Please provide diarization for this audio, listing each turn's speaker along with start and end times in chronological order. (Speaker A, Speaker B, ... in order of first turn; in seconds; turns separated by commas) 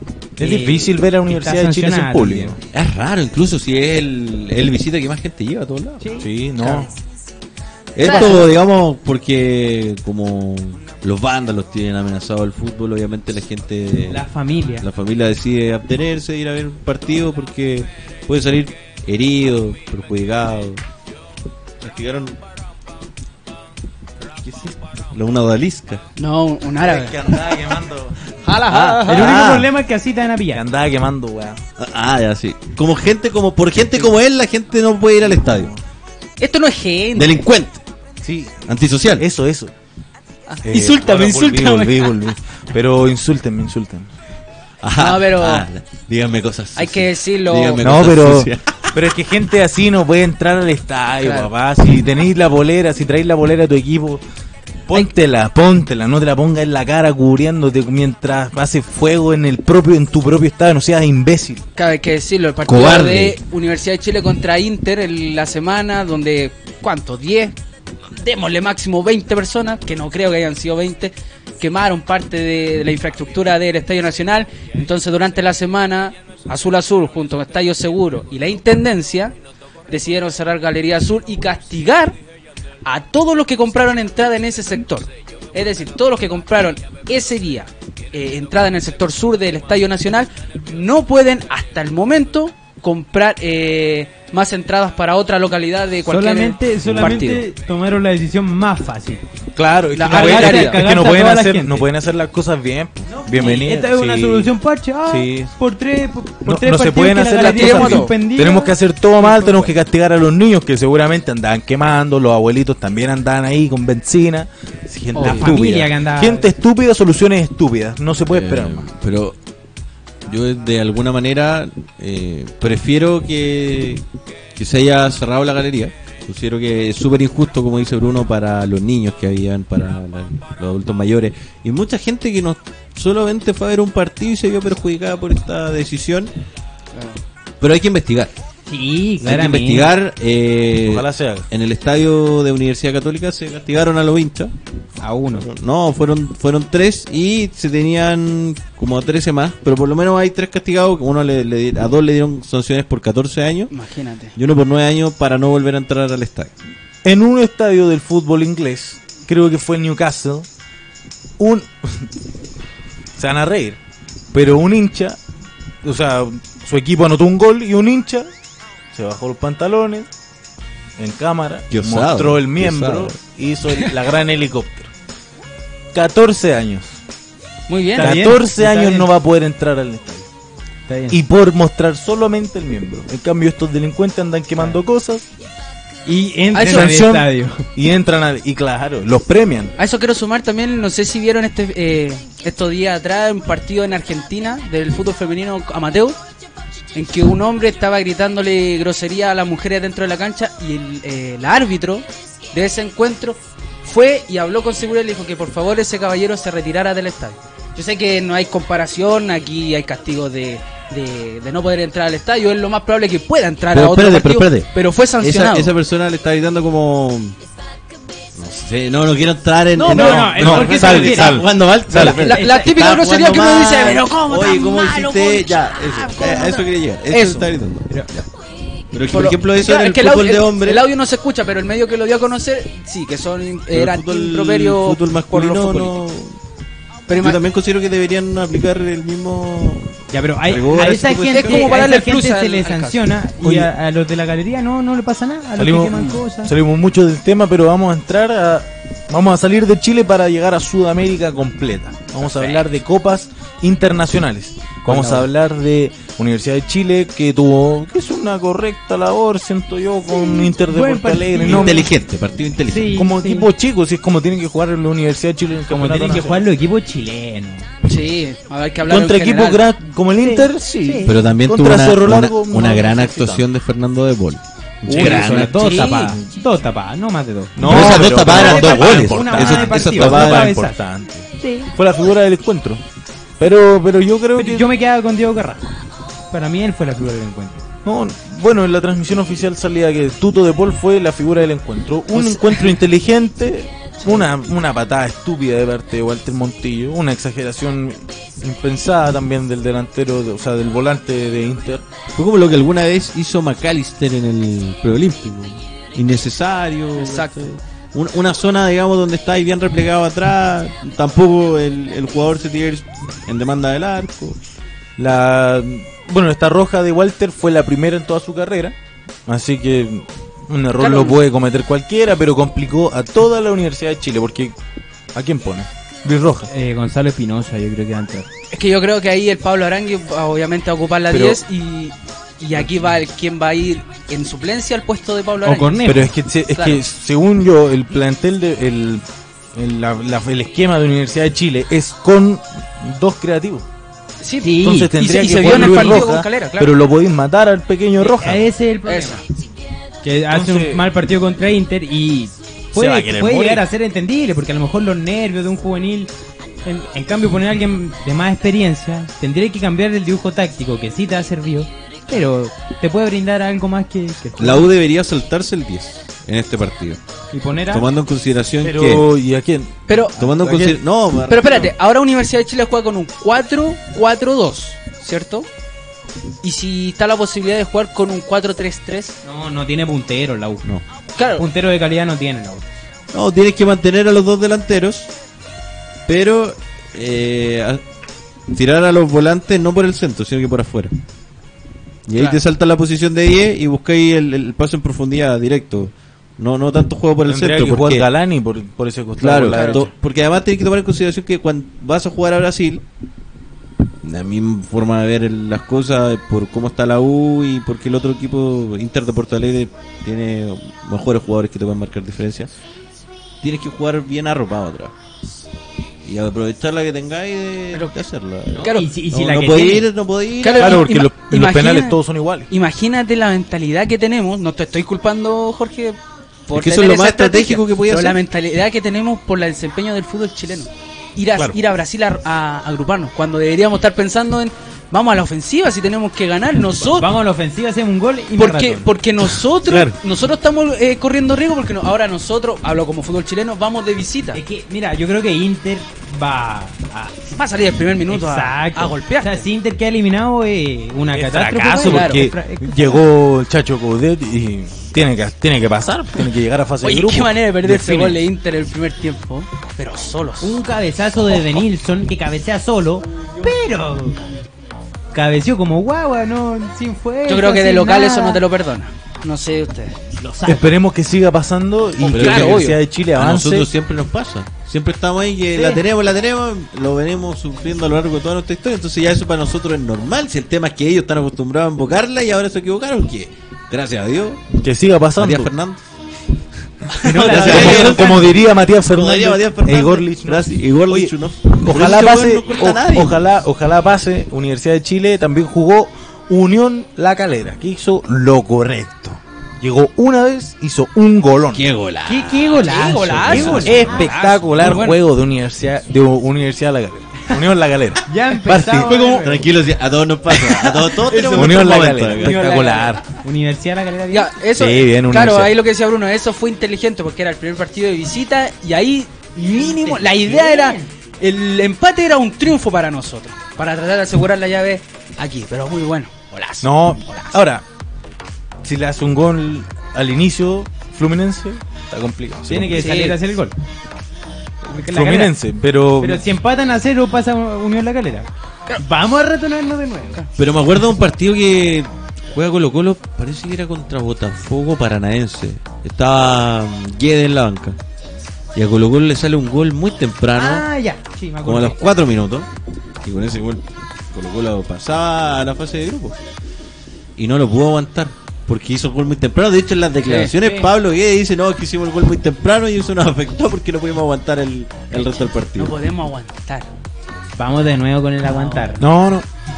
Speaker A: 0.4-2.6, Speaker B: 0.4-2.6, Speaker C: 2.7-6.0, Speaker A: 6.0-6.8, Speaker B: 6.2-6.9, Speaker C: 8.0-14.2, Speaker D: 8.0-8.5, Speaker A: 8.0-8.5, Speaker A: 14.1-14.8, Speaker C: 14.8-20.8, Speaker C: 21.8-22.4, Speaker B: 24.4-24.7, Speaker C: 25.1-26.0, Speaker D: 26.2-27.3, Speaker B: 26.8-29.6, Speaker C: 28.6-29.7, Speaker A: 28.7-30.6, Speaker B: 30.5-31.6, Speaker C: 31.8-35.7, Speaker B: 35.4-35.8, Speaker D: 36.4-37.4, Speaker C: 37.1-37.8, Speaker B: 38.2-39.7, Speaker C: 38.7-39.2, Speaker D: 40.5-42.2, Speaker B: 40.6-44.1, Speaker C: 44.8-49.0, Speaker D: 45.0-45.7, Speaker D: 46.8-47.8, Speaker B: 47.8-54.2, Speaker D: 51.2-51.5, Speaker B: 54.9-61.6, Speaker D: 61.8-67.5, Speaker C: 62.6-63.4, Speaker D: 68.2-79.3, Speaker D: 79.9-82.2, Speaker D: 82.8-97.4, Speaker A: 96.1-99.2, Speaker B: 99.5-104.5, Speaker D: 99.9-100.8, Speaker A: 100.1-101.9, Speaker A: 103.1-109.7, Speaker B: 105.0-105.5, Speaker B: 106.4-118.9, Speaker D: 107.3-108.1, Speaker D: 115.1-115.5, Speaker A: 115.2-116.5, Speaker C: 118.3-119.3, Speaker C: 120.2-124.0, Speaker C: 124.5-136.3, Speaker D: 136.9-137.2, Speaker C: 137.6-138.3, Speaker A: 138.7-139.9, Speaker C: 139.2-144.5, Speaker B: 140.8-141.5, Speaker A: 145.0-145.5, Speaker C: 145.3-153.7, Speaker D: 153.7-154.3, Speaker C: 154.3-156.5, Speaker B: 157.0-160.5, Speaker B: 161.4-162.1, Speaker B: 163.2-163.8, Speaker B: 164.3-165.2, Speaker B: 165.8-168.3, Speaker B: 168.9-170.1, Speaker B: 171.0-174.9, Speaker C: 171.7-173.2, Speaker B: 175.9-177.0, Speaker D: 177.7-178.1, Speaker A: 177.9-179.1, Speaker B: 178.0-180.3, Speaker A: 180.9-181.2, Speaker B: 181.1-185.2, Speaker A: 186.1-187.7, Speaker D: 186.5-187.0, Speaker B: 186.6-189.7, Speaker D: 189.8-196.2, Speaker D: 196.9-215.7, Speaker C: 213.7-214.7, Speaker C: 215.2-217.3, Speaker C: 218.4-228.3, Speaker A: 219.8-221.4, Speaker B: 219.9-222.2, Speaker D: 221.9-227.5, Speaker A: 222.0-222.7, Speaker C: 228.9-230.8, Speaker D: 229.1-236.0, Speaker C: 233.7-236.3, Speaker D: 237.1-237.4, Speaker C: 237.1-239.9, Speaker A: 240.1-246.5, Speaker C: 240.4-241.8, Speaker D: 241.3-243.1, Speaker B: 243.4-243.7, Speaker B: 245.6-261.9, Speaker D: 245.9-246.2, Speaker D: 252.2-252.7, Speaker A: 254.8-255.2, Speaker A: 260.1-261.9, Speaker C: 261.4-263.0, Speaker A: 262.7-263.5, Speaker B: 262.9-266.3, Speaker A: 265.7-267.7, Speaker D: 267.8-269.7, Speaker B: 268.9-273.4, Speaker A: 270.1-271.1, Speaker C: 271.0-275.8, Speaker A: 274.9-280.8, Speaker B: 274.9-275.5, Speaker D: 274.9-276.1, Speaker B: 277.6-282.8, Speaker C: 277.6-280.5, Speaker A: 281.4-281.7, Speaker B: 283.4-284.7, Speaker A: 284.4-285.8, Speaker A: 286.3-287.6, Speaker B: 287.8-301.8, Speaker D: 292.1-292.7, Speaker C: 302.1-314.4, Speaker D: 307.0-307.4, Speaker B: 315.0-318.7, Speaker B: 319.3-324.5, Speaker D: 320.8-321.2, Speaker B: 325.1-326.5, Speaker A: 326.5-328.3, Speaker D: 328.5-336.0, Speaker B: 331.1-331.4, Speaker A: 335.4-336.1, Speaker B: 335.8-339.0, Speaker D: 336.5-336.8, Speaker B: 339.5-343.6, Speaker D: 344.2-346.8, Speaker A: 344.4-346.0, Speaker B: 344.6-348.5, Speaker A: 348.0-349.2, Speaker D: 348.8-349.2, Speaker A: 350.0-356.1, Speaker B: 350.3-350.9, Speaker B: 352.7-353.6, Speaker A: 356.6-364.7, Speaker C: 364.4-367.0, Speaker A: 367.3-367.9, Speaker C: 367.7-369.1, Speaker B: 368.6-370.8, Speaker D: 369.9-370.2, Speaker C: 370.1-371.7, Speaker D: 371.3-375.5, Speaker D: 376.4-379.2, Speaker A: 379.2-380.6, Speaker D: 381.1-381.4, Speaker A: 381.4-382.7, Speaker C: 383.1-385.1, Speaker C: 386.1-387.8, Speaker C: 388.5-390.9, Speaker C: 392.1-398.1, Speaker D: 392.1-392.4, Speaker B: 397.2-399.9, Speaker C: 399.2-402.8, Speaker D: 399.5-399.8, Speaker C: 404.0-412.5, Speaker C: 413.4-414.9, Speaker C: 416.0-420.9, Speaker D: 418.6-418.9, Speaker A: 418.7-419.9, Speaker D: 420.4-422.0, Speaker B: 420.6-422.5, Speaker D: 422.5-426.0, Speaker D: 426.5-437.1, Speaker C: 426.5-428.2, Speaker A: 436.8-438.9, Speaker D: 438.4-444.4, Speaker B: 439.2-439.9, Speaker A: 444.3-447.2, Speaker D: 447.3-449.5, Speaker A: 448.1-453.0, Speaker B: 451.1-458.2, Speaker D: 451.8-452.2, Speaker D: 456.8-460.6, Speaker A: 460.4-464.2, Speaker A: 465.1-468.4, Speaker D: 467.3-470.1, Speaker A: 470.2-470.7, Speaker B: 470.4-473.7, Speaker C: 472.0-484.5, Speaker D: 472.0-472.8, Speaker B: 484.5-485.5, Speaker C: 485.2-485.8, Speaker C: 486.9-493.2, Speaker A: 487.0-488.3, Speaker B: 487.0-501.7, Speaker C: 501.5-503.9, Speaker A: 502.1-504.2, Speaker D: 502.6-505.0, Speaker B: 503.3-509.0, Speaker A: 508.0-509.5, Speaker D: 508.8-509.2, Speaker C: 508.9-512.5, Speaker B: 511.0-513.0, Speaker A: 512.2-514.3, Speaker D: 514.1-527.4, Speaker B: 514.5-515.5, Speaker A: 519.4-520.9, Speaker B: 526.6-527.6, Speaker B: 528.6-532.9, Speaker A: 532.5-533.5, Speaker D: 532.7-533.2, Speaker A: 534.6-535.3, Speaker B: 534.9-536.2, Speaker A: 536.0-538.3, Speaker A: 538.8-540.2, Speaker C: 540.4-547.8, Speaker C: 548.5-550.7, Speaker A: 550.3-551.9, Speaker C: 551.4-552.5, Speaker C: 553.0-556.2, Speaker C: 557.2-565.8, Speaker D: 560.0-560.7, Speaker D: 564.9-566.7, Speaker A: 567.4-568.8, Speaker D: 568.2-568.8, Speaker B: 568.8-569.3